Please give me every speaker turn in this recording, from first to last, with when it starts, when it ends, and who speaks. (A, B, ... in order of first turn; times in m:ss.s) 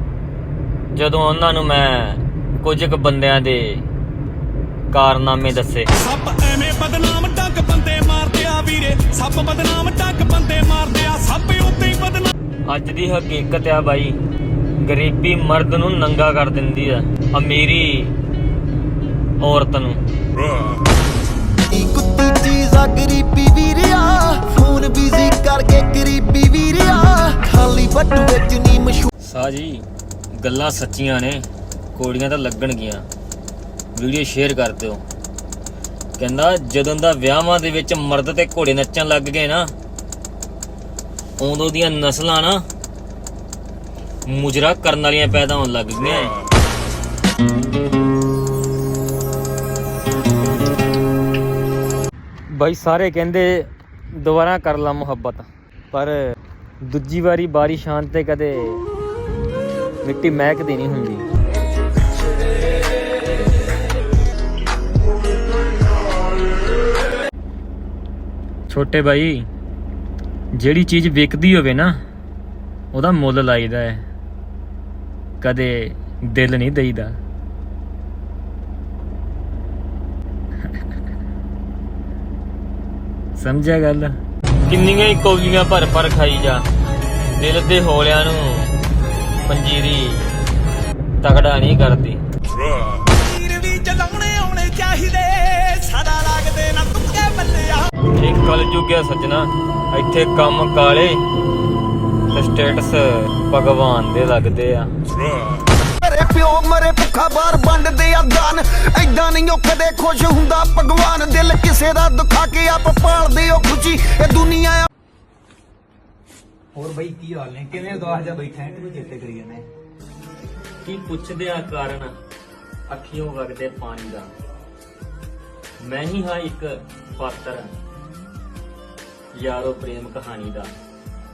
0:00.9-0:03.9 A
0:04.9-0:05.9 A
0:06.0-0:12.3 B
0:12.7-0:14.2 A
0:14.8-0:18.2 A
0:19.4-0:20.0 A
0:21.7-0:29.1 C
0:29.2-0:33.1 A
0:34.0-0:35.0 A
0:36.2-0:39.7 A
0:41.4-0:42.6 A
0:44.3-0:46.4 A
0:52.5-0:58.8 A
1:00.0-1:01.2 A
1:08.7-1:09.5 A
1:10.6-1:12.0 A
1:12.9-1:14.0 A
1:15.4-1:17.2 A
1:23.4-1:26.6 A
1:27.4-1:28.7 A
1:29.5-1:30.3 A
1:31.2-1:32.2 A
1:33.0-1:37.9 B
1:38.1-1:41.2 A
1:42.3-1:44.9 A
1:45.8-1:54.9 C
1:56.8-1:59.7 D
2:00.8-2:02.2 A
2:02.9-2:04.3 A
2:05.8-2:07.8 A
2:09.3-2:10.7 A